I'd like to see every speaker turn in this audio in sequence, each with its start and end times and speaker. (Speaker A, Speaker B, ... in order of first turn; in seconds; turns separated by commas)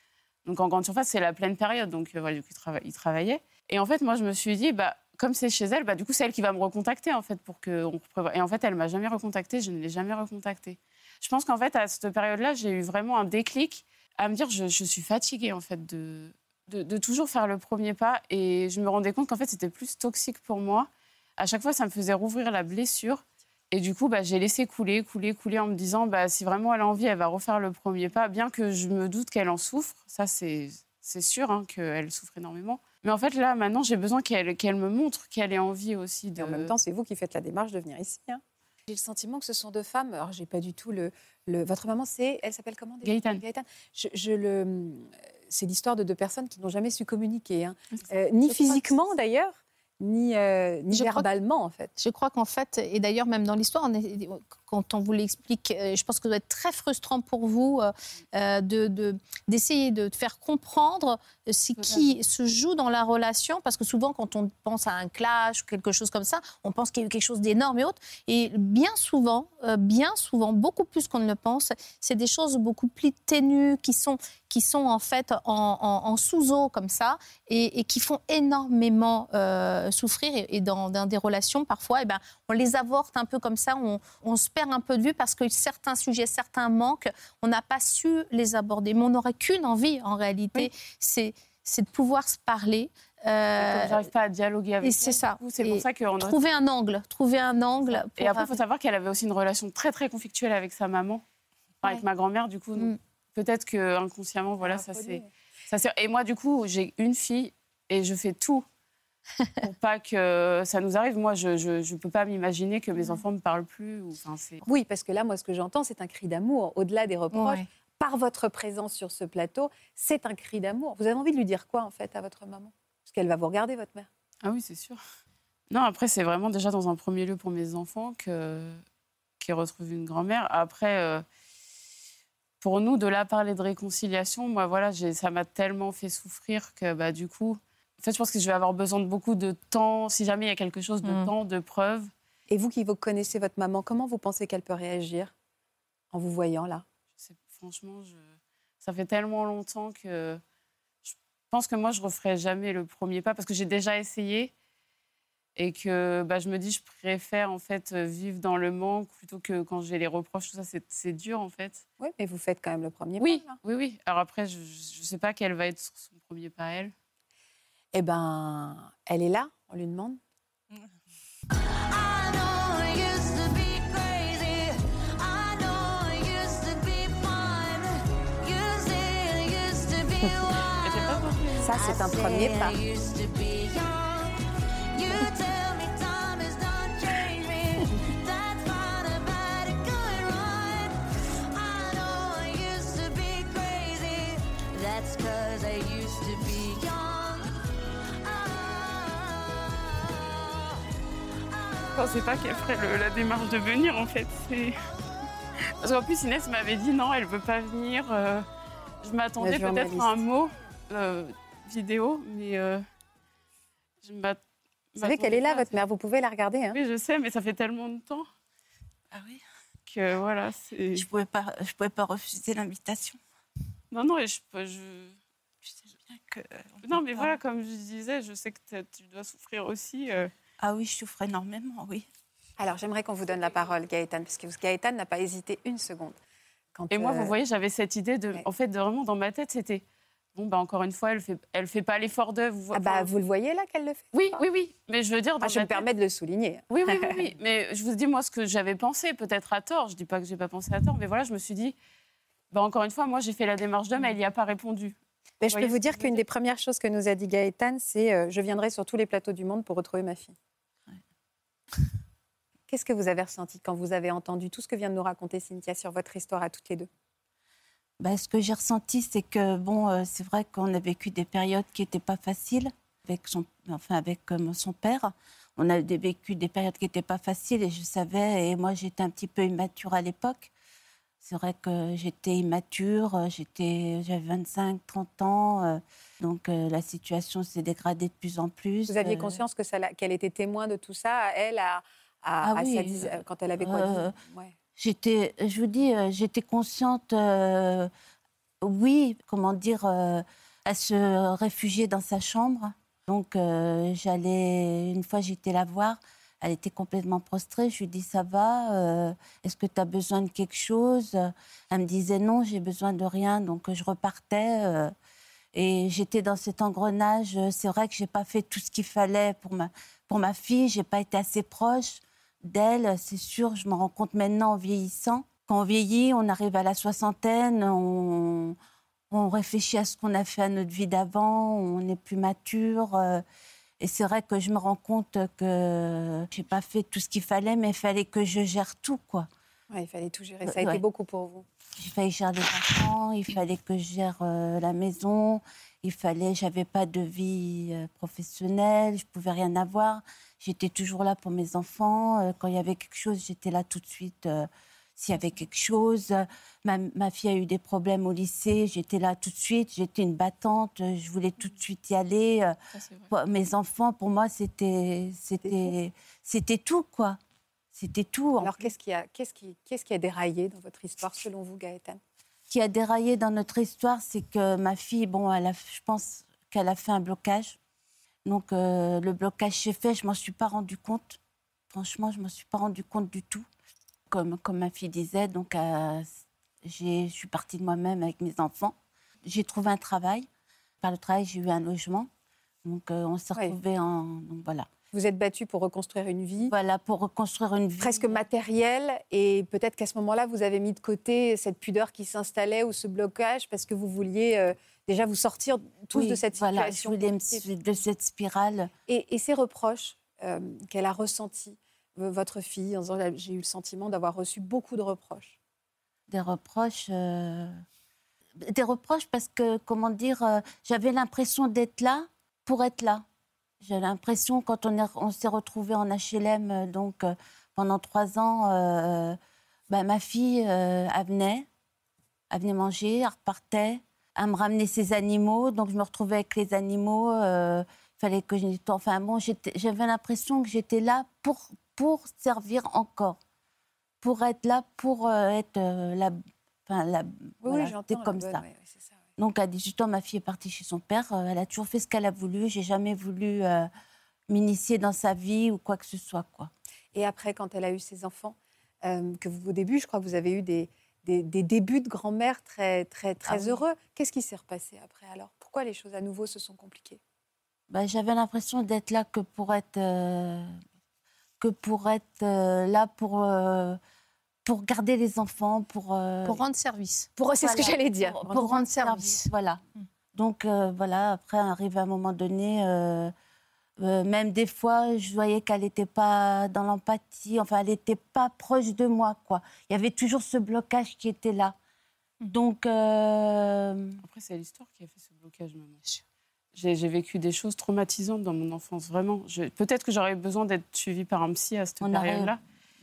Speaker A: 0.5-36.8, Speaker B: 36.4-51.9, Speaker A: 43.0-43.4, Speaker A: 47.9-48.8, Speaker C: 50.9-51.3, Speaker C: 52.0-94.1, Speaker A: 61.8-62.1, Speaker A: 93.6-96.4, Speaker C: 94.8-98.6, Speaker A: 97.8-101.2, Speaker A: 101.8-108.7, Speaker B: 104.6-105.3, Speaker A: 109.6-114.6, Speaker B: 114.6-124.1, Speaker C: 117.3-117.7, Speaker A: 124.4-125.0, Speaker A: 125.7-128.8, Speaker A: 129.4-131.2, Speaker A: 132.6-142.1, Speaker C: 141.0-141.3, Speaker B: 142.5-145.3, Speaker B: 146.1-146.8, Speaker A: 147.2-150.4, Speaker A: 151.1-154.5, Speaker A: 155.6-161.8, Speaker B: 162.0-163.6, Speaker A: 163.2-166.9, Speaker B: 167.9-170.2, Speaker D: 171.9-181.2, Speaker A: 180.8-181.7, Speaker B: 181.6-182.8, Speaker D: 181.7-184.3, Speaker D: 184.9-190.9, Speaker D: 191.5-197.4, Speaker D: 198.3-199.4, Speaker A: 201.9-204.8, Speaker A: 205.8-208.5, Speaker A: 209.0-212.8, Speaker B: 209.4-210.1, Speaker A: 214.0-214.4, Speaker A: 214.9-215.8, Speaker B: 215.0-216.8, Speaker A: 216.7-218.3, Speaker E: 219.1-219.4, Speaker A: 219.9-221.1, Speaker E: 220.9-223.2, Speaker A: 223.9-225.2, Speaker E: 225.7-227.3, Speaker A: 226.8-230.3, Speaker E: 230.6-232.1, Speaker B: 232.6-236.2, Speaker B: 236.8-237.3, Speaker A: 236.9-239.8, Speaker A: 240.3-243.1, Speaker B: 242.7-244.4, Speaker A: 244.1-245.9, Speaker B: 245.4-247.2, Speaker A: 246.7-251.8, Speaker A: 252.5-256.2, Speaker B: 255.4-260.4, Speaker B: 262.7-266.9, Speaker E: 268.0-280.5, Speaker E: 281.2-289.4, Speaker B: 288.9-294.6, Speaker E: 292.4-294.2, Speaker E: 294.8-297.9, Speaker E: 298.6-314.9, Speaker E: 315.5-328.6, Speaker E: 329.1-333.2, Speaker E: 333.8-339.3, Speaker B: 339.7-341.5, Speaker E: 340.4-340.8, Speaker E: 341.8-362.6, Speaker A: 362.8-363.1, Speaker E: 363.1-367.2, Speaker B: 365.5-365.7, Speaker E: 367.8-368.7, Speaker B: 368.4-372.0, Speaker E: 372.5-377.6, Speaker E: 378.2-381.2, Speaker E: 381.7-383.5, Speaker E: 384.1-386.1, Speaker E: 386.6-390.3, Speaker E: 390.8-392.1, Speaker E: 392.6-394.7, Speaker B: 394.9-396.5, Speaker E: 396.5-398.3, Speaker B: 397.8-407.5, Speaker E: 405.9-408.7, Speaker B: 408.9-415.4, Speaker E: 416.1-417.6, Speaker E: 418.4-423.1, Speaker E: 423.6-431.5, Speaker E: 432.3-443.2, Speaker E: 444.0-448.4, Speaker B: 447.4-448.9, Speaker E: 449.2-453.7, Speaker E: 454.3-456.5, Speaker B: 456.9-467.0, Speaker E: 463.3-463.6, Speaker E: 467.7-470.6, Speaker E: 471.4-473.8, Speaker E: 474.4-476.4, Speaker C: 476.2-477.1, Speaker B: 477.2-478.2, Speaker E: 477.4-479.6, Speaker C: 478.2-479.2, Speaker E: 480.1-483.1, Speaker E: 483.8-491.6, Speaker E: 492.2-494.0, Speaker A: 494.0-495.8, Speaker A: 496.6-502.4, Speaker E: 501.8-502.4